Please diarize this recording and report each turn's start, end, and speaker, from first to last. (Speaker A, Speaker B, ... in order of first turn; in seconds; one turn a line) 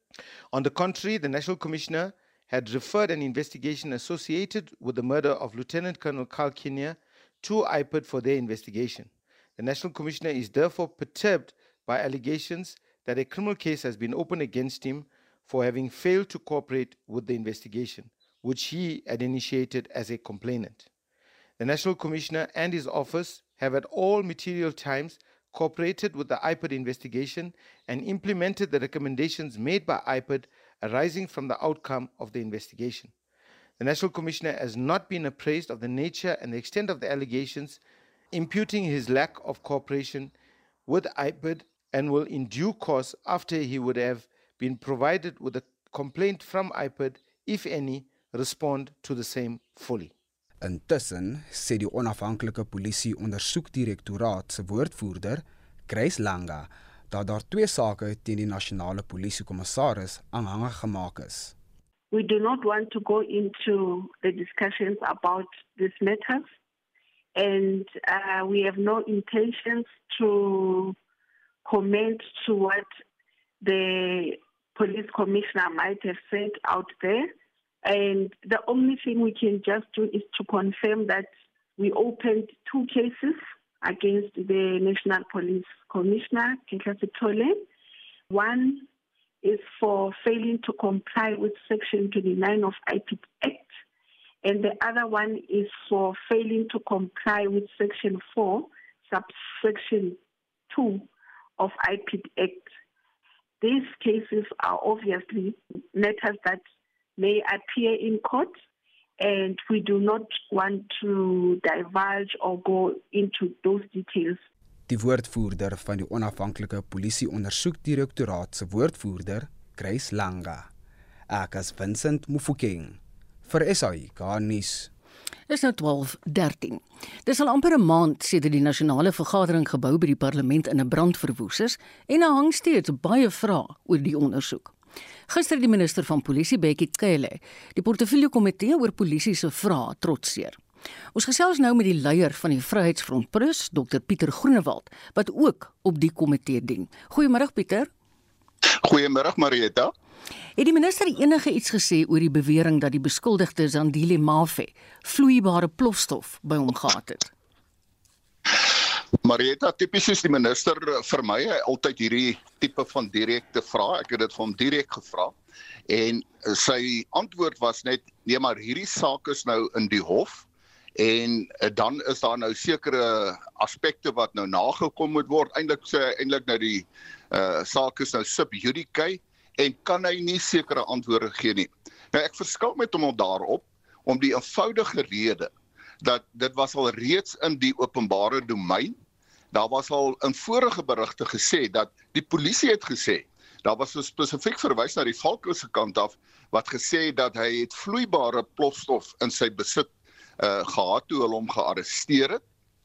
Speaker A: 0.5-20.9
Speaker A: 21.6-33.1
Speaker A: 33.8-37.8
Speaker A: 38.3-40.3
Speaker A: 40.9-50.1
Speaker B: 50.6-61.5
Speaker C: 62.1-66.5
Speaker C: 67.3-71.0
Speaker C: 71.6-72.9
Speaker C: 73.6-77.3
Speaker C: 77.8-87.6
Speaker C: 88.3-88.9
Speaker C: 89.4-93.7
Speaker C: 94.4-100.2
Speaker C: 100.7-102.7
Speaker C: 103.6-106.6
Speaker C: 107.2-108.6
Speaker C: 109.2-114.4
Speaker B: 114.9-120.7
Speaker B: 121.3-124.9
Speaker D: 125.5-134.7
Speaker D: 135.3-140.6
Speaker D: 141.1-147.9
Speaker E: 148.9-149.8
Speaker D: 150.6-157.3
Speaker E: 159.2-165.3
Speaker E: 165.9-170.4
Speaker E: 171.0-185.5
Speaker E: 186.0-189.0
Speaker E: 189.5-199.9
Speaker E: 200.4-202.4